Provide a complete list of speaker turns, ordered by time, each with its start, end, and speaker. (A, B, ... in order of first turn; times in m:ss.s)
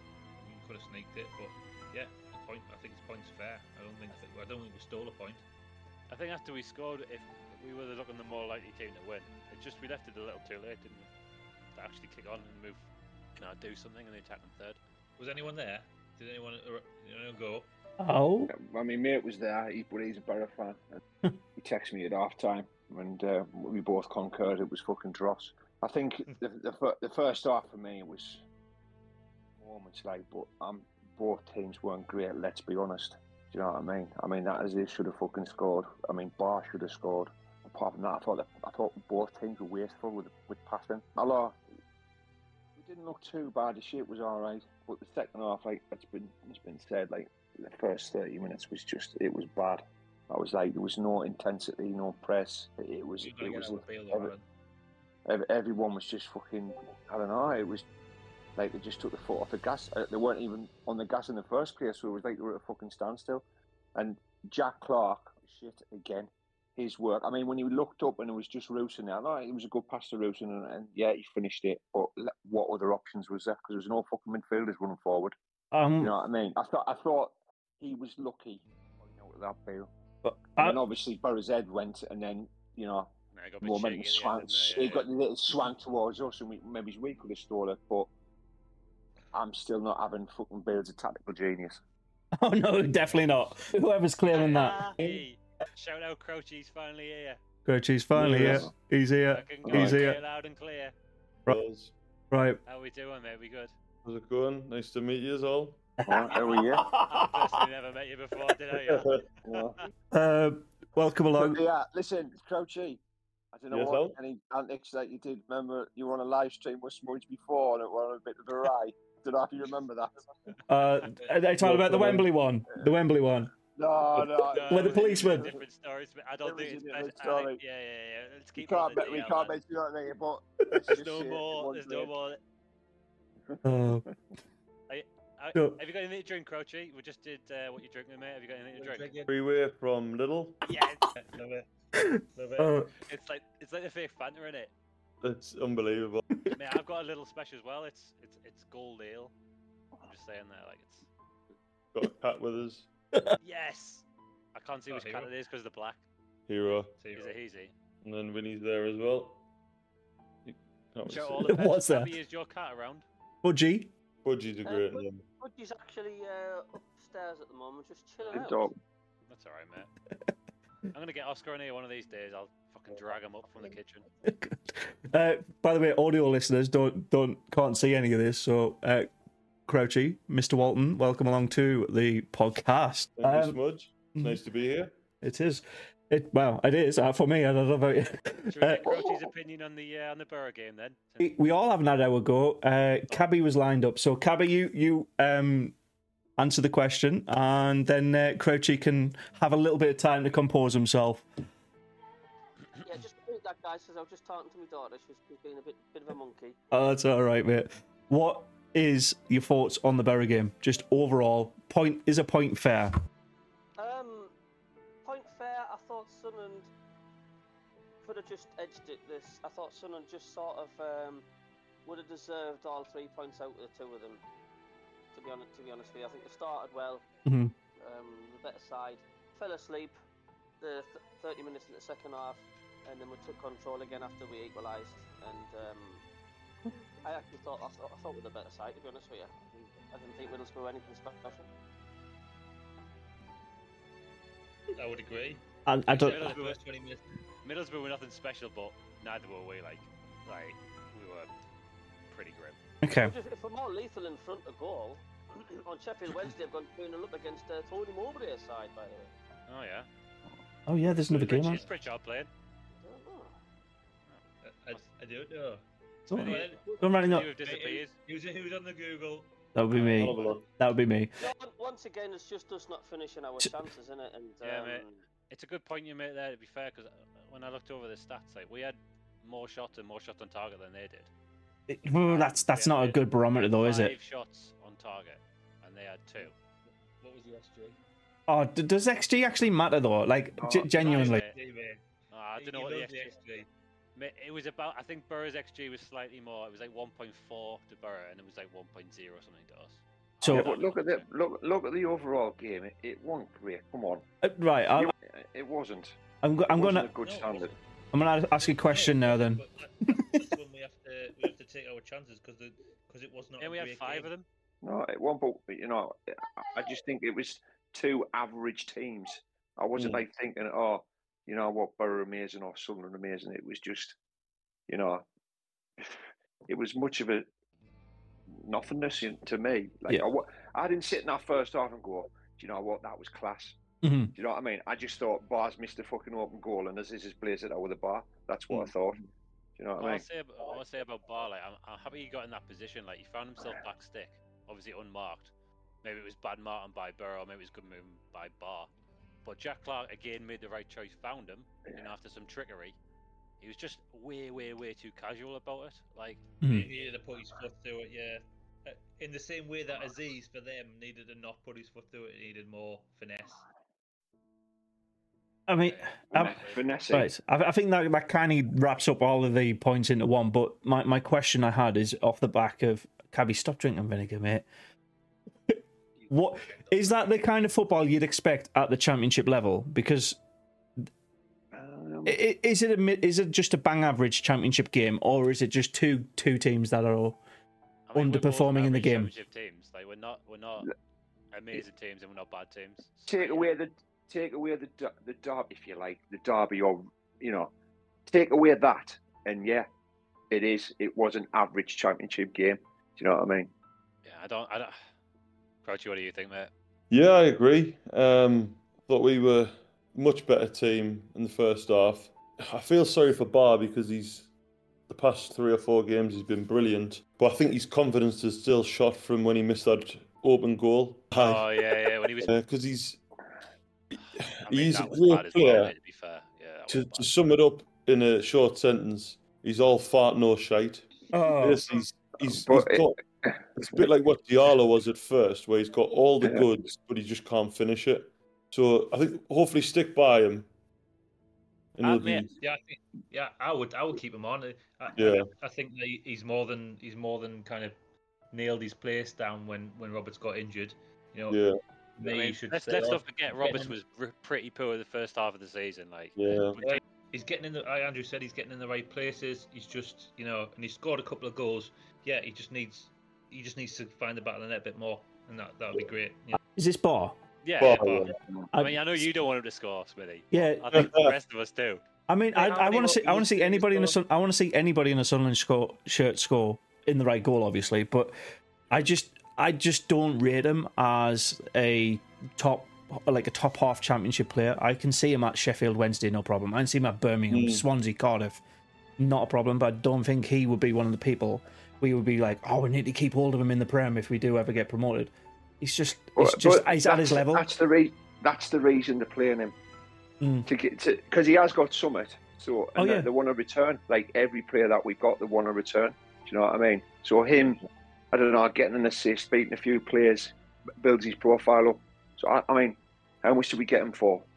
0:00.4-0:05.4 A
0:06.1-0:11.1 B
0:11.8-0:12.8 B
0:13.4-0:14.8 B
0:15.2-0:17.7 A
0:18.0-0:18.5 C
0:18.5-0:20.8 D
0:21.6-0:28.4 D
0:29.6-0:41.6 D
0:42.8-0:54.3 D
0:53.2-0:54.4 A
0:55.3-0:57.8 D
0:58.6-1:03.4 D
1:04.0-1:15.4 D
1:15.7-1:16.1 C
1:16.0-1:19.9 D
1:20.2-1:20.8 C
1:20.6-1:23.1 D
1:23.4-1:25.1 B
1:23.6-1:28.1 D
1:29.3-1:31.8 D
1:32.4-1:35.2 C
1:34.3-1:37.4 B
1:37.6-1:40.1 C
1:38.2-1:38.7 E
1:38.4-1:38.7 D
1:39.3-1:40.9 B
1:39.7-1:40.1 E
1:41.5-1:41.9 E
1:42.3-1:42.6 C
1:42.7-1:43.7 B
1:44.0-1:45.8 E
1:46.0-1:47.4 C
1:46.1-1:46.9 D
1:46.3-1:49.2 B
1:48.8-1:49.2 E
1:49.4-1:49.8 D
1:50.1-1:51.6 C
1:51.4-1:53.0 D
1:53.5-2:00.2 D
1:53.7-1:54.2 E
2:00.7-2:03.5 C
2:00.7-2:01.1 B
2:01.6-2:02.3 E
2:03.8-2:05.6 D
2:04.5-2:09.6 B
2:04.7-2:05.5 C
2:06.4-2:07.6 D
2:08.6-2:12.1 D
2:10.9-2:12.4 B
2:13.6-2:14.0 C
2:14.9-2:19.1 B
2:15.6-2:15.8 C
2:18.7-2:19.3 A
2:19.3-2:20.7 E
2:20.7-2:21.0 B
2:21.1-2:21.7 A
2:22.0-2:22.9 C
2:22.4-2:22.8 A
2:23.1-2:24.7 B
2:25.2-2:26.2 E
2:26.5-2:29.3 B
2:30.1-2:31.1 B
2:31.9-2:32.9 E
2:33.4-2:36.0 B
2:34.9-2:35.3 A
2:36.5-2:36.9 E
2:37.0-2:37.4 A
2:37.2-2:37.7 B
2:38.0-2:39.4 E
2:40.4-2:41.6 E
2:41.1-2:43.1 B
2:41.5-2:42.1 C
2:43.4-2:43.9 C
2:44.2-2:45.2 E
2:44.6-2:48.7 F
2:48.3-2:48.7 D
2:49.3-2:49.9 B
2:50.9-2:54.0 B
2:54.2-2:59.1 C
2:59.7-3:03.6 C
3:03.2-3:04.9 E
3:05.2-3:09.1 C
3:08.5-3:11.4 B
3:11.2-3:15.8 C
3:16.4-3:21.3 C
3:22.8-3:26.6 F
3:26.7-3:32.9 C
3:33.8-3:34.3 F
3:35.0-3:36.7 F
3:38.0-3:41.2 F
3:41.8-3:44.2 F
3:45.1-3:47.1 F
3:47.3-3:47.5 C
3:47.8-3:50.0 F
3:50.6-3:56.0 F
3:57.0-4:01.5 F
4:04.8-4:05.4 A
4:05.7-4:06.3 C
4:05.9-4:06.6 B
4:06.0-4:07.0 A
4:07.4-4:11.3 B
4:12.1-4:12.6 B
4:12.8-4:13.1 C
4:13.0-4:19.1 F
4:19.5-4:19.9 B
4:20.7-4:21.6 C
4:21.0-4:22.3 B
4:22.8-4:23.3 F
4:24.1-4:24.8 B
4:24.4-4:25.6 A
4:26.1-4:27.3 C
4:26.1-4:27.9 B
4:26.2-4:29.3 A
4:26.4-4:27.0 F
4:29.6-4:31.1 C
4:29.8-4:30.3 B
4:29.8-4:30.5 E
4:31.2-4:35.0 F
4:34.4-4:41.1 B
4:41.7-4:43.9 C
4:41.9-4:46.3 B
4:47.0-4:47.8 A
4:48.3-4:51.3 C
4:50.4-4:50.7 D
4:50.8-4:51.8 A
4:50.8-4:51.3 B
4:52.1-4:53.2 B
4:52.4-4:53.5 A
4:54.0-5:01.1 B
5:00.2-5:00.5 C
5:00.3-5:04.0 D
5:04.2-5:04.9 C
5:04.8-5:06.0 D
5:06.2-5:06.9 C
5:06.5-5:07.5 D
5:07.0-5:07.5 A
5:07.9-5:09.4 C
5:08.4-5:14.1 A
5:10.0-5:10.2 C
5:13.4-5:14.3 B
5:14.6-5:24.0 D
5:19.8-5:20.0 E
5:24.7-5:25.0 D
5:26.5-5:27.3 D
5:28.3-5:33.6 D
5:33.8-5:34.1 C
5:34.2-5:39.0 D
5:39.6-5:40.0 D
5:39.8-5:45.3 B
5:45.8-5:48.7 B
5:49.2-5:52.8 B
5:53.4-5:56.3 B
5:56.4-5:56.7 C
5:56.5-6:03.4 A
6:05.5-6:06.4 C
6:06.1-6:07.1 D
6:06.9-6:14.5 C
6:15.5-6:20.2 C
6:21.5-6:22.2 D
6:22.1-6:27.2 C
6:27.9-6:30.7 B
6:28.0-6:29.1 C
6:31.3-6:33.6 B
6:33.1-6:37.5 D
6:38.1-6:39.7 D
6:40.3-6:43.5 D
6:44.0-6:44.8 B
6:45.6-6:46.5 B
6:46.9-6:54.3 E
6:54.9-7:01.5 E
7:01.1-7:02.3 B
7:02.2-7:03.0 E
7:03.9-7:05.7 E
7:04.0-7:07.1 B
7:06.7-7:13.0 E
7:11.1-7:11.6 C
7:12.2-7:13.8 D
7:13.6-7:20.5 E
7:21.8-7:22.3 E
7:21.8-7:22.3 B
7:22.4-7:27.8 A
7:25.0-7:25.3 E
7:28.3-7:31.4 A
7:31.3-7:31.6 E
7:32.0-7:33.8 A
7:32.0-7:36.8 B
7:36.2-7:36.6 E
7:36.6-7:46.4 A
7:46.6-7:47.2 C
7:47.4-7:47.9 B
7:47.6-7:48.2 E
7:47.7-7:48.2 A
7:48.5-7:48.8 C
7:48.6-7:51.8 B
7:50.3-7:50.9 C
7:50.7-7:51.2 E
7:52.1-7:58.2 C
7:52.3-7:54.0 A
7:58.7-8:08.4 C
8:07.3-8:07.6 E
8:09.0-8:17.4 C
8:16.2-8:19.5 D
8:20.2-8:20.5 C
8:20.5-8:27.6 D
8:22.8-8:23.1 C
8:28.1-8:34.3 D